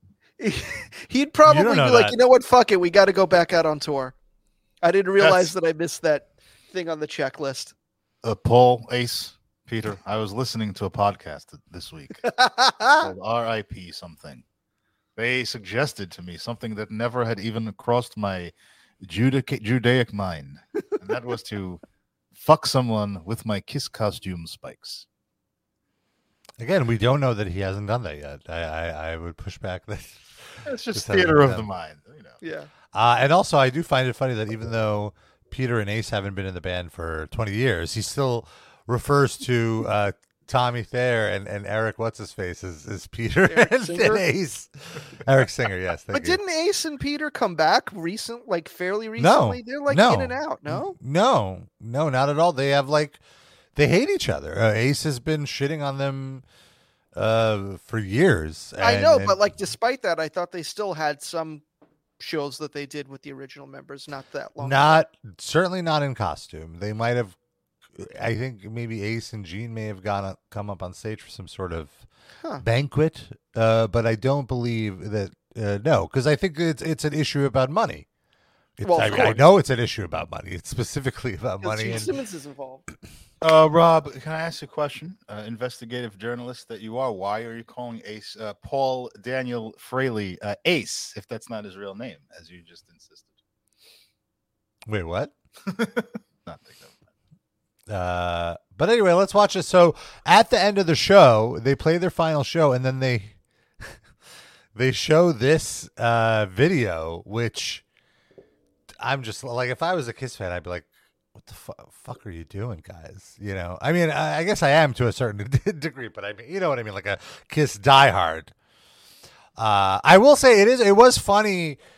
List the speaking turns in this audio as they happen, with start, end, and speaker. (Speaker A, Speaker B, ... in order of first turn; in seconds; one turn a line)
Speaker A: 0.4-4.1
Speaker B: 1.4-2.2
Speaker A: 4.8-7.7
Speaker C: 5.2-5.5
Speaker C: 8.2-12.3
Speaker A: 12.2-13.1
Speaker C: 13.0-14.4
Speaker C: 15.2-21.8
Speaker C: 22.3-25.0
Speaker B: 26.6-31.7
Speaker C: 30.6-32.4
Speaker A: 32.4-32.7
Speaker B: 32.9-44.7
Speaker A: 43.5-44.2
Speaker B: 45.2-46.4
Speaker A: 46.1-51.0
Speaker B: 49.2-53.2
Speaker B: 53.7-56.4
Speaker B: 57.1-59.4
Speaker A: 58.8-61.6
Speaker A: 62.2-65.0
Speaker B: 64.6-67.3
Speaker B: 68.0-72.0
Speaker B: 72.6-78.1
Speaker B: 78.8-82.1
Speaker A: 78.8-79.4
Speaker C: 79.1-79.3
Speaker A: 81.6-82.8
Speaker C: 83.4-93.3
Speaker B: 94.9-95.3
Speaker C: 95.7-97.0
Speaker B: 97.9-103.3
Speaker B: 104.7-107.8
Speaker B: 109.0-118.5
Speaker B: 119.5-121.8